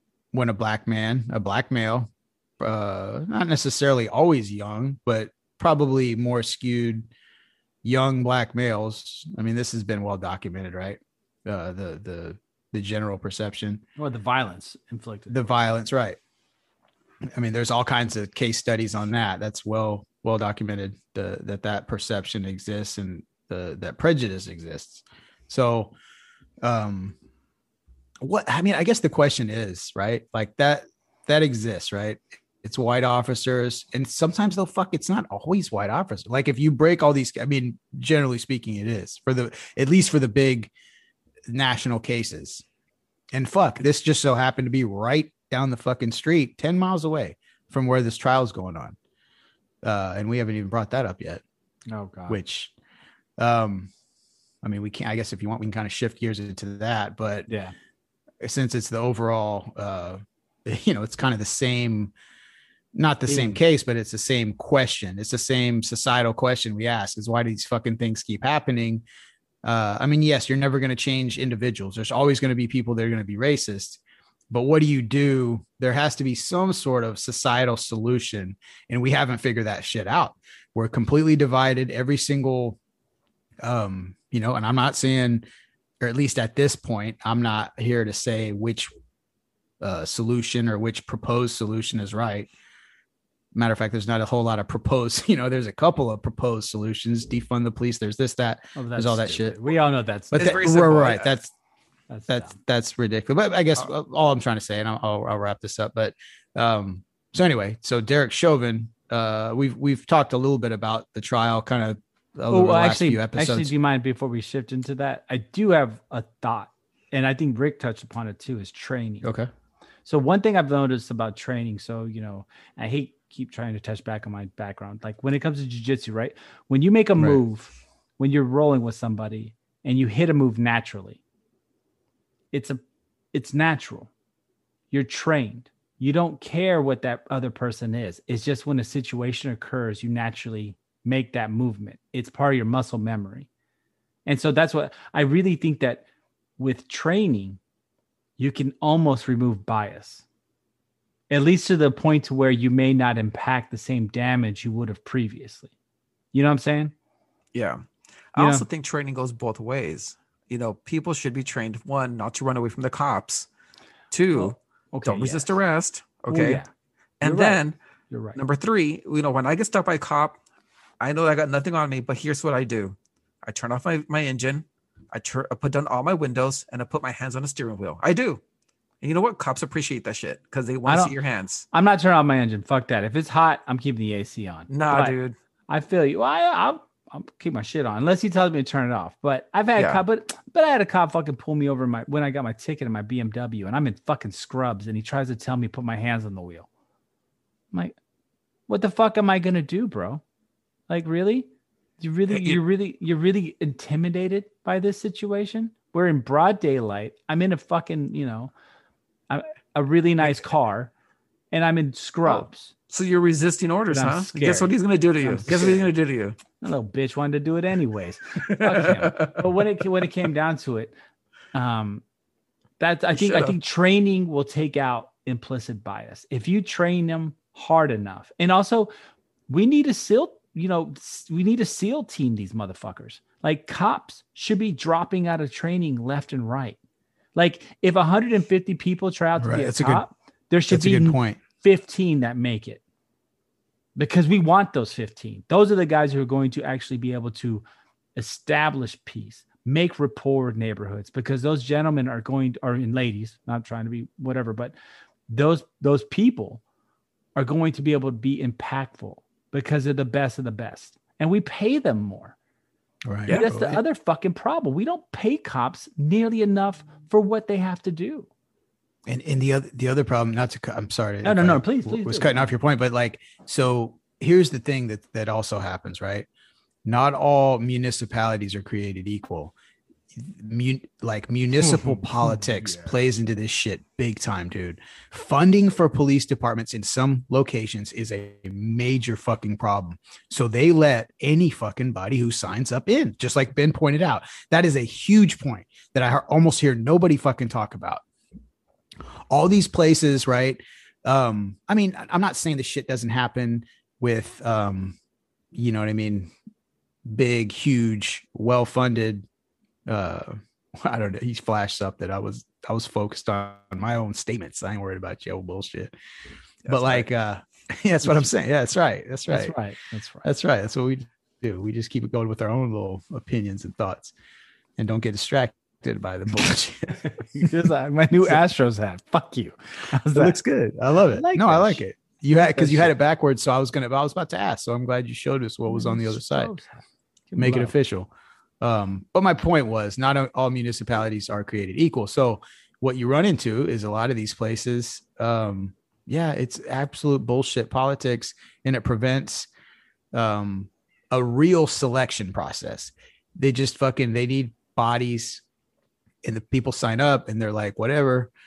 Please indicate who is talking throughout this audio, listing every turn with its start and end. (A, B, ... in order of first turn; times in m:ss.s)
0:00.3-0:07.1 A
0:07.8-0:13.8 A
0:14.0-0:15.4 B
0:15.3-0:16.2 A
0:17.3-0:25.9 A
0:26.6-0:27.2 A
0:28.2-0:40.7 A
0:41.5-0:42.6 A
0:43.3-0:49.0 A
0:49.8-0:51.4 A
0:51.9-0:52.4 B
0:52.3-0:52.7 A
0:53.4-0:53.9 A
0:54.6-0:57.5 A
0:57.5-0:57.8 B
0:58.4-1:02.1 A
1:02.9-1:09.0 A
1:03.3-1:03.6 B
1:09.6-1:22.8 A
1:23.6-1:25.4 A
1:26.0-1:28.9 A
1:29.8-1:32.5 A
1:33.6-1:39.6 A
1:38.8-1:40.4 B
1:40.3-1:41.5 A
1:40.3-1:41.3 C
1:42.1-1:42.6 B
1:42.3-1:53.7 A
1:52.5-1:59.3 B
1:59.2-1:59.5 A
2:00.0-2:11.2 B
2:12.5-2:12.8 B
2:13.3-2:14.1 B
2:14.9-2:23.5 B
2:24.3-2:26.0 B
2:26.6-2:27.6 B
2:28.4-2:30.2 B
2:31.3-2:35.7 B
2:36.3-2:36.9 B
2:37.5-2:43.5 C
2:38.4-2:38.6 B
2:44.1-2:46.6 C
2:44.3-2:45.5 B
2:46.3-2:46.7 B
2:47.2-2:47.8 C
2:47.2-2:48.4 B
2:48.4-2:50.4 C
2:51.0-2:58.4 C
2:59.0-3:01.7 C
3:00.9-3:01.1 B
3:01.7-3:05.2 B
3:04.7-3:05.4 C
3:05.7-3:16.7 B
3:09.8-3:10.0 C
3:18.7-3:20.2 B
3:20.9-3:21.5 B
3:22.0-3:28.5 B
3:22.3-3:22.6 C
3:29.3-3:30.9 B
3:31.5-3:32.7 B
3:32.3-3:36.4 C
3:33.9-3:35.9 B
3:36.6-3:40.9 B
3:38.5-3:39.6 C
3:41.5-3:42.0 B
3:42.8-3:48.9 B
3:43.2-3:43.6 C
3:49.5-3:56.8 B
3:57.4-4:02.8 B
3:59.4-4:00.0 A
4:00.7-4:01.4 A
4:04.0-4:07.6 B
4:08.2-4:14.8 B
4:15.3-4:16.6 B
4:17.4-4:22.4 B
4:23.1-4:23.8 A
4:23.3-4:28.3 B
4:29.1-4:36.3 A
4:31.2-4:32.4 B
4:36.8-4:39.5 A
4:40.1-4:58.0 A
4:42.4-4:42.9 B
4:59.3-5:05.0 A
5:05.5-5:06.3 A
5:07.1-5:09.3 A
5:09.9-5:15.9 A
5:16.6-5:17.1 C
5:16.7-5:19.5 A
5:19.3-5:20.3 B
5:20.2-5:24.1 A
5:24.8-5:27.5 A
5:27.0-5:30.4 B
5:30.1-5:36.5 A
5:31.2-5:31.8 B
5:32.4-5:32.9 B
5:35.7-5:37.8 B
5:37.4-5:38.1 A
5:38.6-5:49.5 A
5:50.1-5:55.4 A
5:56.2-5:58.3 A